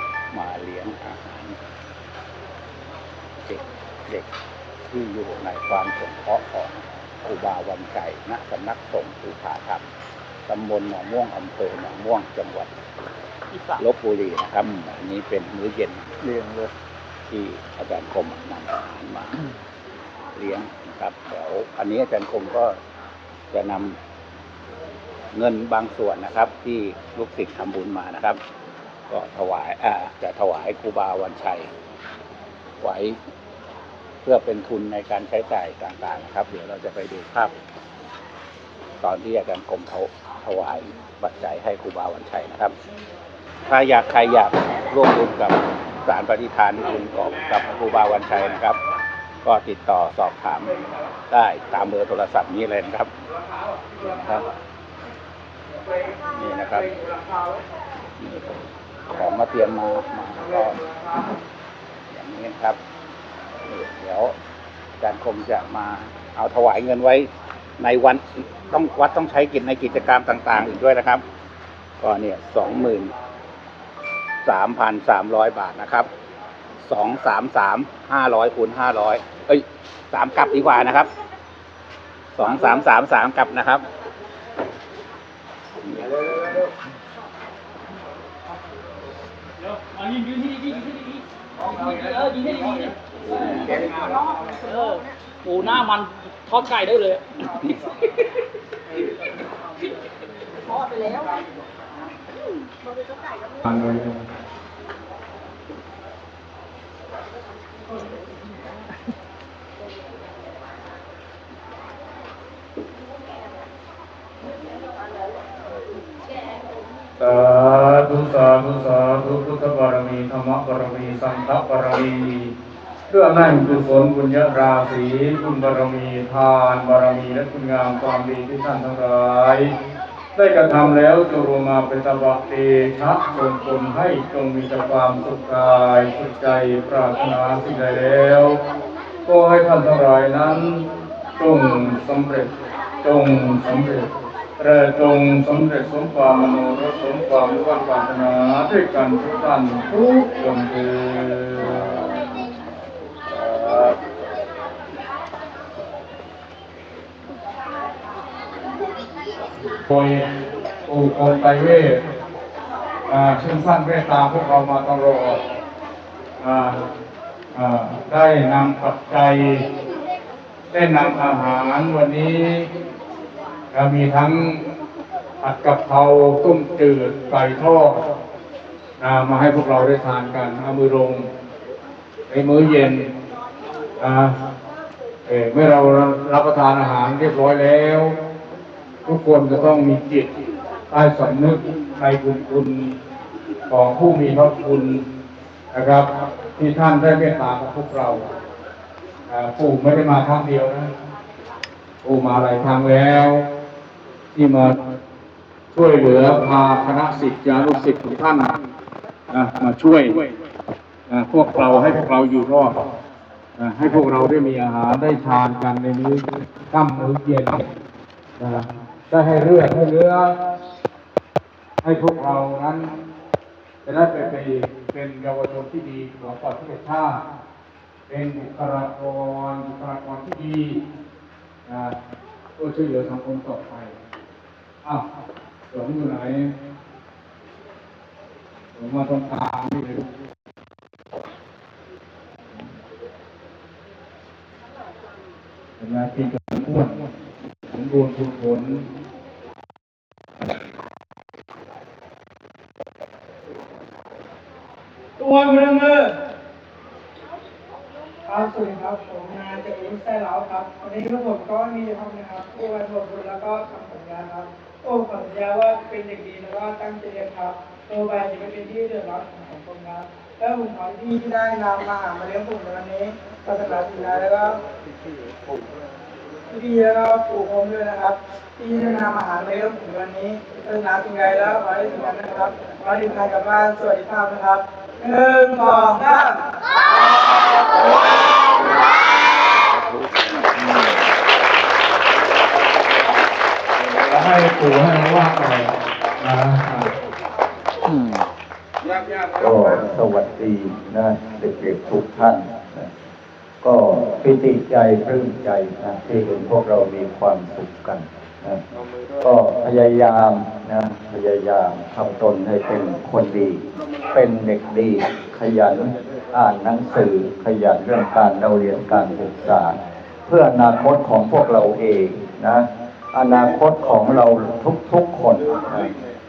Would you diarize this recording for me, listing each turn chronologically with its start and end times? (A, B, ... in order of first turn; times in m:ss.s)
0:00.3-0:01.6 A
0:03.4-0:04.3 A
0:04.9-0:09.8 A
0:10.5-0:12.7 A
0:13.5-0:13.8 B
0:13.8-0:16.1 A
0:16.3-0:16.6 C
0:17.3-0:19.4 A
0:20.3-0:22.8 A
0:23.5-0:24.0 A
0:25.3-0:28.4 A
0:29.1-0:31.7 A
0:32.8-0:33.2 A
0:34.2-0:37.5 A
0:39.0-0:42.7 A
0:43.7-0:48.8 A
0:49.4-0:50.8 A
0:51.3-0:53.1 A
0:53.9-0:54.5 A
0:56.3-0:56.9 A
0:58.2-0:58.6 A
0:59.1-1:00.8 A
1:02.1-1:02.8 A
1:03.6-1:04.3 A
1:05.0-1:11.2 A
1:12.0-1:13.1 A
1:14.4-1:16.1 A
1:16.8-1:21.1 A
1:22.3-1:23.8 A
1:25.9-1:26.6 A
1:29.9-1:32.9 B
1:33.2-1:34.2 A
1:34.6-1:37.2 B
1:35.6-1:35.9 A
1:37.4-1:38.1 A
1:43.6-1:44.2 D
1:57.2-2:02.5 D
2:03.1-2:09.7 D
2:10.3-2:18.6 D
2:19.2-2:22.5 D
2:23.0-2:32.2 D
2:33.4-2:33.9 D
2:39.7-2:40.2 D
2:40.8-2:42.0 D
2:43.1-2:45.4 D
2:46.4-2:46.8 D
2:47.5-2:49.6 D
2:50.7-2:52.7 D
2:53.7-2:54.6 D
2:55.4-2:58.0 D
2:59.0-3:01.3 D
3:02.3-3:03.1 D
3:04.0-3:04.4 D
3:05.2-3:08.2 D
3:09.0-3:10.3 D
3:10.9-3:13.0 D
3:13.7-3:15.0 D
3:15.7-3:18.3 D
3:19.3-3:20.9 D
3:22.0-3:23.4 D
3:24.3-3:24.8 D
3:25.7-3:28.5 D
3:29.3-3:30.2 D
3:31.1-3:32.8 D
3:33.6-3:37.6 D
3:38.4-3:40.3 D
3:41.8-3:42.9 D
3:43.8-3:47.2 D
3:48.1-3:50.8 D
3:51.6-3:51.9 D
3:52.6-3:53.9 D
3:55.7-3:56.5 D
3:58.7-4:00.0 D
4:05.8-4:06.9 D
4:07.7-4:08.8 D
4:15.2-4:16.1 E
4:18.2-4:34.6 E
4:36.5-4:46.4 E
4:49.7-4:51.0 C
4:54.0-4:56.9 D
4:57.8-4:58.3 C
4:59.3-5:02.9 C
5:03.6-5:08.6 C
5:09.2-5:13.6 C
5:14.1-5:19.7 C
5:20.3-5:25.9 C